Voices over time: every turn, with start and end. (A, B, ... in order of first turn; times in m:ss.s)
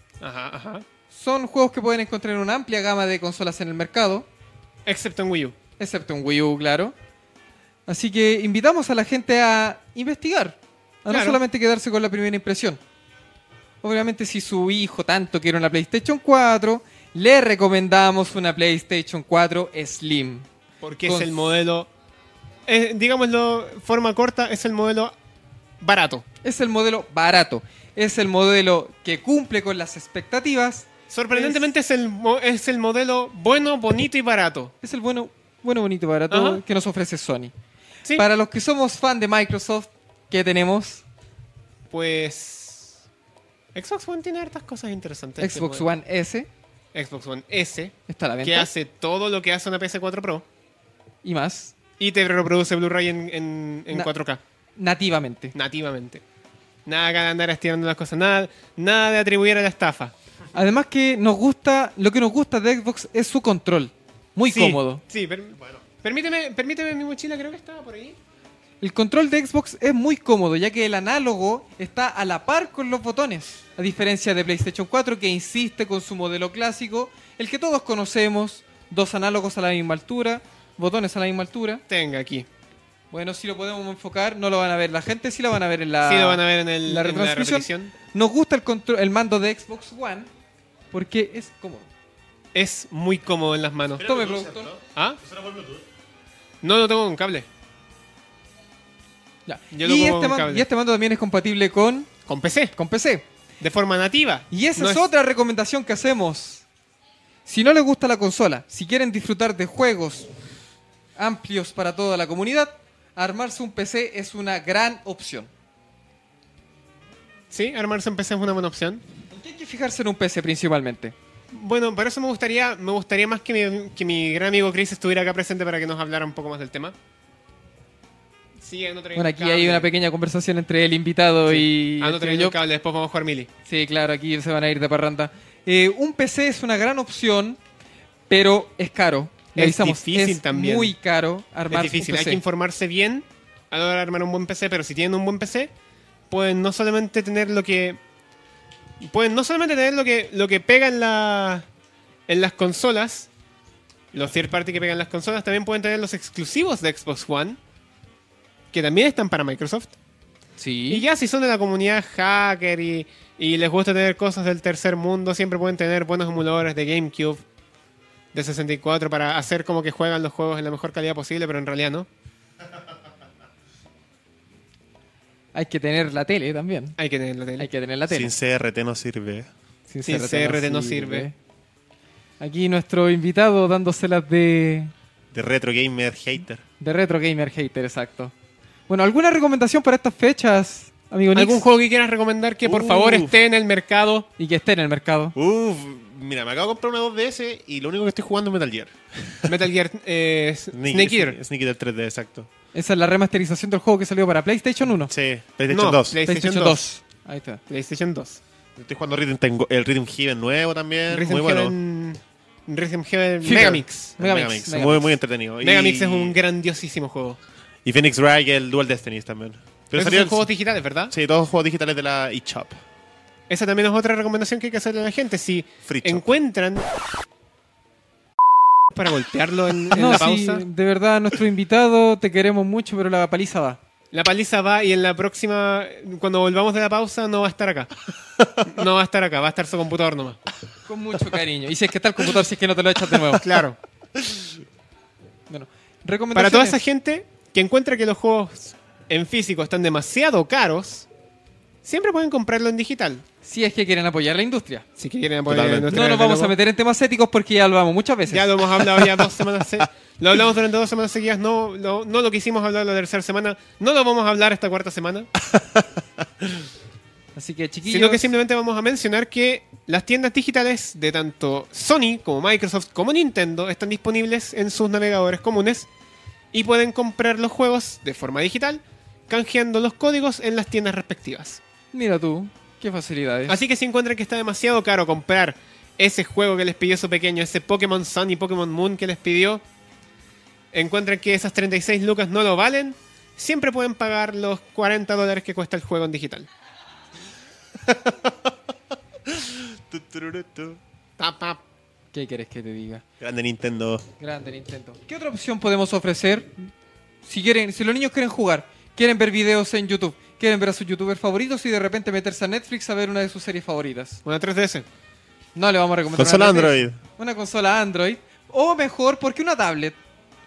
0:00.2-0:00.8 A
0:01.1-0:04.3 B
0:04.8-0:05.6 A
0:05.8-0:06.9 B
0:07.9-0:12.8 B
0:11.1-0:11.4 A
0:13.8-0:20.5 B
0:20.8-0:21.9 A
0:21.0-0:21.5 B
0:22.7-0:25.1 A
0:25.8-0:26.2 A
0:26.4-0:31.7 B
0:31.1-0:34.7 A
0:34.8-0:37.5 B
0:36.3-0:36.6 A
0:38.2-0:41.0 B
0:41.9-0:43.0 A
0:43.7-0:45.9 A
0:45.4-0:46.5 B
0:46.9-0:50.4 A
0:48.1-0:48.7 B
0:51.2-0:51.7 B
0:52.0-0:54.4 A
0:54.8-0:55.5 B
0:55.5-0:56.2 A
0:56.8-1:00.1 A
1:00.5-1:05.0 B
1:04.5-1:08.2 A
1:08.8-1:21.8 B
1:21.9-1:22.4 A
1:23.1-1:30.3 B
1:26.0-1:27.9 A
1:30.9-1:31.9 B
1:32.5-1:34.0 A
1:34.0-1:35.8 C
1:34.0-1:34.7 B
1:34.9-1:35.2 A
1:36.6-1:37.5 A
1:39.4-1:42.1 B
1:39.7-1:40.6 A
1:42.3-1:42.7 A
1:42.8-1:43.2 B
1:43.6-1:45.1 A
1:44.5-1:46.6 B
1:47.4-1:50.3 B
1:51.2-1:55.5 B
1:57.5-1:59.0 A
1:59.3-2:01.1 B
2:01.5-2:06.9 A
2:08.6-2:09.9 A
2:09.1-2:12.6 B
2:11.5-2:13.5 A
2:13.6-2:17.6 B
2:18.3-2:22.4 B
2:19.5-2:20.9 A
2:21.7-2:25.7 A
2:26.3-2:28.0 A
2:29.0-2:31.6 A
2:32.3-2:33.3 A
2:34.1-2:37.6 A
2:38.7-2:39.9 A
2:40.6-2:41.0 B
2:40.9-2:47.4 A
2:48.3-2:52.1 A
2:55.5-2:57.0 B
2:57.0-2:57.7 A
2:57.6-2:58.3 B
2:58.1-2:59.5 C
2:59.9-3:01.3 B
3:00.1-3:01.3 A
3:02.4-3:04.9 B
3:05.3-3:06.6 C
3:06.8-3:08.3 B
3:08.9-3:11.6 B
3:11.3-3:14.3 A
3:12.6-3:13.4 C
3:14.4-3:15.3 B
3:15.3-3:19.5 C
3:19.4-3:21.4 A
3:20.7-3:22.5 C
3:22.7-3:25.1 B
3:25.1-3:26.2 C
3:25.7-3:26.8 A
3:26.3-3:27.6 B
3:27.7-3:28.4 A
3:28.8-3:31.7 C
3:31.1-3:34.1 A
3:33.4-3:35.2 B
3:33.5-3:36.4 C
3:35.6-3:37.4 A
3:37.8-3:40.4 C
3:39.9-3:41.1 A
3:41.1-3:42.8 C
3:43.5-3:46.8 A
3:45.9-3:46.2 C
3:48.9-3:50.6 A
3:49.9-3:53.8 B
3:54.1-3:57.9 A
3:58.7-4:00.4 A
4:00.8-4:03.4 B
4:03.4-4:03.8 A
4:05.5-4:06.8 B
4:06.3-4:11.1 A
4:11.8-4:13.2 A
4:13.4-4:14.8 B
4:15.0-4:16.5 A
4:15.5-4:15.9 C
4:15.9-4:18.6 B
4:18.3-4:25.3 A
4:25.6-4:25.8 C
4:27.3-4:28.3 B
4:27.9-4:35.9 A
4:36.5-4:41.6 A
4:41.9-4:43.6 B
4:43.5-4:49.6 A
4:50.7-4:56.5 A
4:57.8-4:58.5 C
4:59.3-5:00.8 C
5:01.2-5:01.6 A
5:02.1-5:03.0 B
5:03.2-5:04.0 C
5:04.2-5:06.5 B
5:07.2-5:14.2 B
5:14.2-5:14.8 A
5:15.5-5:20.0 B
5:16.2-5:17.0 C